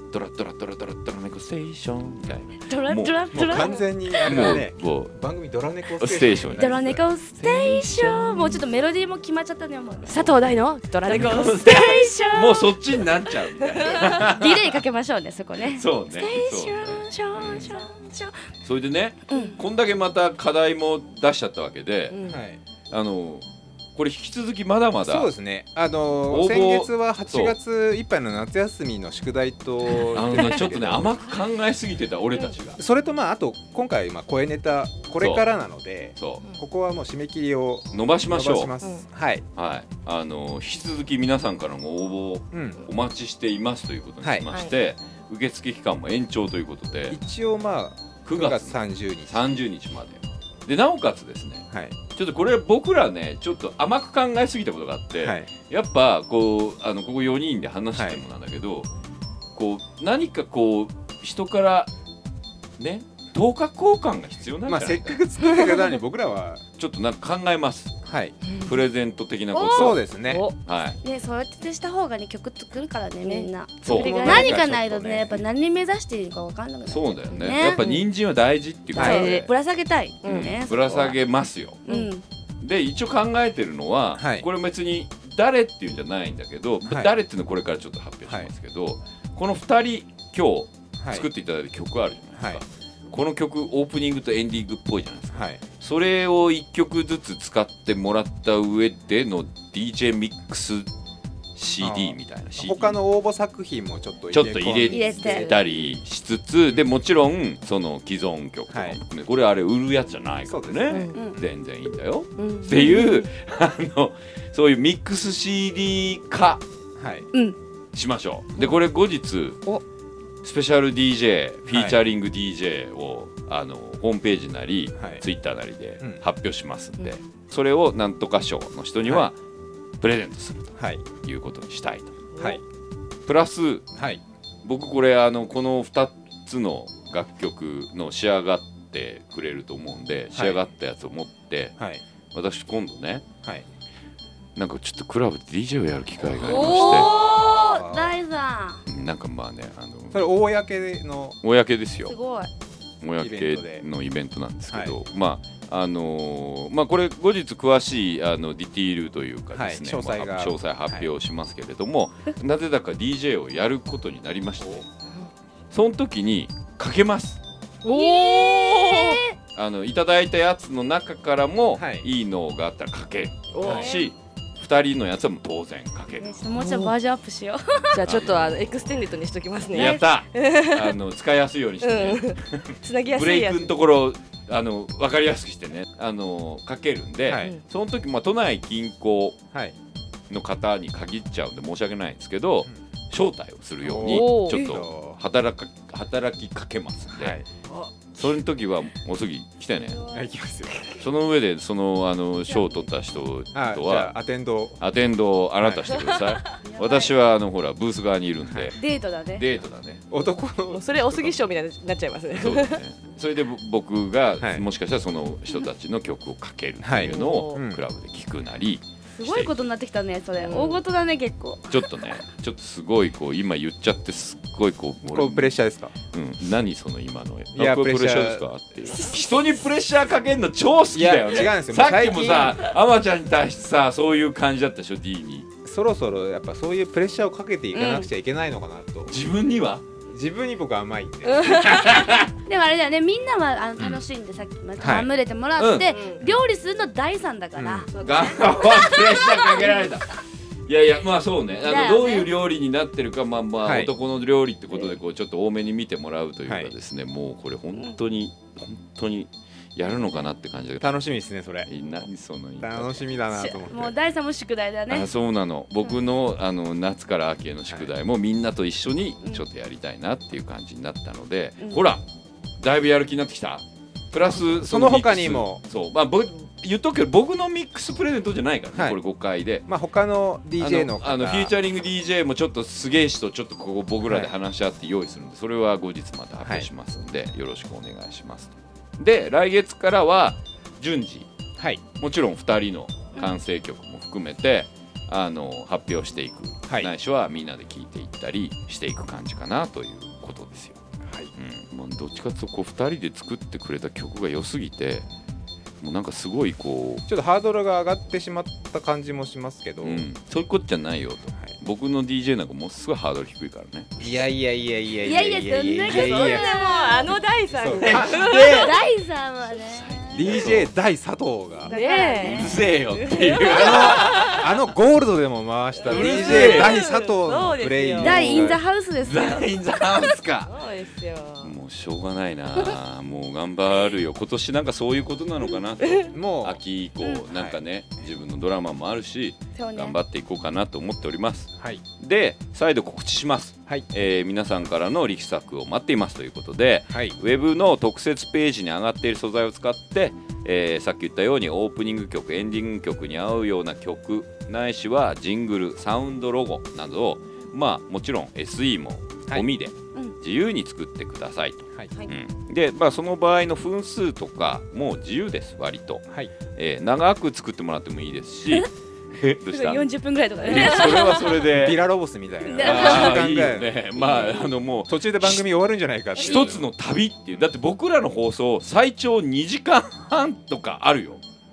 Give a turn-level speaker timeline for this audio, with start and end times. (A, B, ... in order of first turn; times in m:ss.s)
0:00.1-0:05.1 A
0:02.6-0:04.6 B
0:03.3-0:07.0 C
0:06.0-0:06.8 A
0:06.5-0:10.3 B
0:07.4-0:08.4 A
0:07.6-0:08.6 D
0:10.0-0:12.1 D
0:11.1-0:14.8 A
0:11.1-0:12.8 B
0:13.6-0:14.3 D
0:13.8-0:15.9 B
0:15.6-0:17.7 A
0:16.1-0:18.3 D
0:17.6-0:17.9 B
0:18.6-0:22.2 A
0:19.3-0:19.6 B
0:22.1-0:22.4 D
0:22.2-0:22.6 C
0:22.9-0:25.3 A
0:25.0-0:31.2 C
0:26.3-0:27.6 A
0:30.0-0:32.8 A
0:32.8-0:39.4 C
0:35.2-0:35.4 A
0:36.2-0:36.4 A
0:37.9-0:38.7 A
0:39.6-0:47.2 A
0:42.5-0:42.8 C
0:44.2-0:44.5 C
0:47.1-0:49.6 C
0:48.2-0:58.9 A
0:51.7-0:52.0 C
0:55.2-0:55.5 C
0:58.0-0:58.2 C
0:59.5-1:01.9 A
1:02.8-1:05.2 A
1:04.6-1:06.6 C
1:06.8-1:08.0 A
1:08.0-1:08.4 C
1:08.4-1:08.8 D
1:08.6-1:10.0 A
1:09.5-1:10.0 B
1:09.7-1:10.5 C
1:10.2-1:10.6 D
1:10.6-1:11.0 A
1:11.0-1:17.9 B
1:13.2-1:14.5 D
1:13.8-1:14.5 A
1:13.8-1:15.4 C
1:16.8-1:19.5 A
1:17.3-1:18.1 D
1:18.9-1:19.2 C
1:18.9-1:19.5 D
1:19.0-1:21.2 B
1:20.2-1:21.1 D
1:20.2-1:21.8 A
1:21.8-1:22.2 B
1:22.6-1:40.9 A
1:24.1-1:24.5 C
1:26.8-1:27.1 C
1:31.0-1:31.3 C
1:32.3-1:32.6 C
1:35.3-1:35.6 C
1:41.5-1:43.0 A
1:41.8-1:45.6 C
1:44.3-1:56.6 A
1:44.9-1:45.5 B
1:45.1-1:45.6 D
1:48.7-1:49.0 C
1:50.4-1:51.5 C
1:50.9-1:51.2 D
1:52.4-1:53.3 D
1:57.0-1:57.3 C
1:57.9-1:59.6 A
2:00.4-2:09.4 A
2:01.7-2:02.0 C
2:05.0-2:05.2 C
2:09.0-2:09.3 C
2:10.0-2:12.2 A
2:10.8-2:11.0 C
2:12.3-2:12.6 D
2:13.2-2:13.8 A
2:13.9-2:14.2 C
2:14.6-2:21.7 A
2:20.3-2:20.6 C
2:21.8-2:22.0 C
2:22.3-2:23.3 A
2:24.6-2:27.1 A
2:26.2-2:28.1 C
2:26.4-2:28.8 B
2:28.8-2:30.3 A
2:30.1-2:31.4 C
2:31.4-2:32.1 A
2:32.0-2:32.5 B
2:33.0-2:44.8 A
2:33.2-2:33.8 C
2:34.7-2:35.0 C
2:39.5-2:41.1 C
2:45.7-2:47.4 A
2:47.8-2:49.2 D
2:47.9-2:49.4 B
2:49.5-2:56.5 A
2:51.7-2:52.1 C
2:53.5-2:54.1 D
2:53.6-2:53.9 C
2:56.2-2:58.0 B
2:56.6-2:56.9 D
2:57.9-3:01.0 D
2:58.0-2:58.9 A
2:59.7-3:09.4 A
2:59.7-3:00.0 B
3:01.8-3:03.7 D
3:07.2-3:07.5 C
3:10.3-3:17.4 A
3:13.8-3:15.2 C
3:14.0-3:14.7 D
3:17.1-3:17.6 C
3:18.2-3:20.1 A
3:19.9-3:20.2 B
3:20.1-3:21.0 C
3:21.0-3:24.2 A
3:23.5-3:24.8 C
3:24.8-3:28.8 A
3:25.6-3:25.9 C
3:25.9-3:26.3 D
3:26.6-3:27.1 B
3:28.4-3:28.7 C
3:28.7-3:29.4 B
3:29.3-3:30.0 A
3:30.1-3:31.4 C
3:30.7-3:32.8 D
3:32.3-3:39.5 A
3:34.4-3:34.6 C
3:36.8-3:37.8 C
3:37.0-3:37.6 D
3:39.1-3:41.9 B
3:40.4-3:40.8 D
3:41.7-3:45.6 A
3:45.0-3:45.9 C
3:46.1-3:55.5 A
3:47.5-3:48.5 C
3:50.9-3:52.7 C
3:55.6-3:59.2 C
3:57.7-3:58.1 B
3:59.1-3:59.8 A
4:00.1-4:01.9 C
4:01.3-4:01.6 D
4:01.4-4:02.3 A
4:02.4-4:09.9 B
4:04.8-4:05.1 C
4:05.6-4:06.4 A
4:05.8-4:06.2 D
4:07.6-4:07.9 C
4:07.9-4:08.6 D
4:08.0-4:10.1 A
4:10.6-4:21.0 A
4:11.6-4:12.3 B
4:13.6-4:13.9 C
4:16.4-4:16.7 C
4:20.8-4:21.7 C
4:21.6-4:23.1 A
4:22.6-4:23.9 C
4:23.3-4:25.1 B
4:24.9-4:32.0 A
4:32.6-4:39.6 A
4:34.2-4:35.6 C
4:38.7-4:39.0 C
4:39.7-4:41.5 C
4:40.6-4:51.3 A
4:44.0-4:44.3 C
4:46.4-4:46.7 C
4:52.0-5:00.8 A
5:01.0-5:01.3 C
5:01.4-5:05.1 A
5:05.8-5:07.0 A
5:07.1-5:10.0 C
5:09.8-5:13.9 A
5:14.0-5:16.5 C
5:15.0-5:17.1 B
5:15.8-5:18.7 D
5:17.6-5:18.4 C
5:17.7-5:18.8 A
5:18.4-5:20.1 B
5:19.5-5:20.7 A
5:20.1-5:21.7 C
5:21.6-5:22.7 B
5:21.7-5:24.5 D
5:22.2-5:24.5 A
5:23.4-5:28.6 C
5:25.8-5:28.4 D
5:25.8-5:26.8 A
5:28.0-5:30.0 B
5:29.0-5:30.5 A
5:30.4-5:31.5 D
5:31.4-6:11.8 A
5:35.8-5:36.1 D
5:36.1-5:36.6 C
5:37.3-5:37.6 C
5:39.5-5:40.0 B
5:46.9-5:47.2 C
6:09.5-6:11.4 B
6:11.5-6:16.6 C
6:12.4-6:13.2 B
6:12.6-6:15.4 A
6:16.2-6:21.2 A
6:16.2-6:16.4 B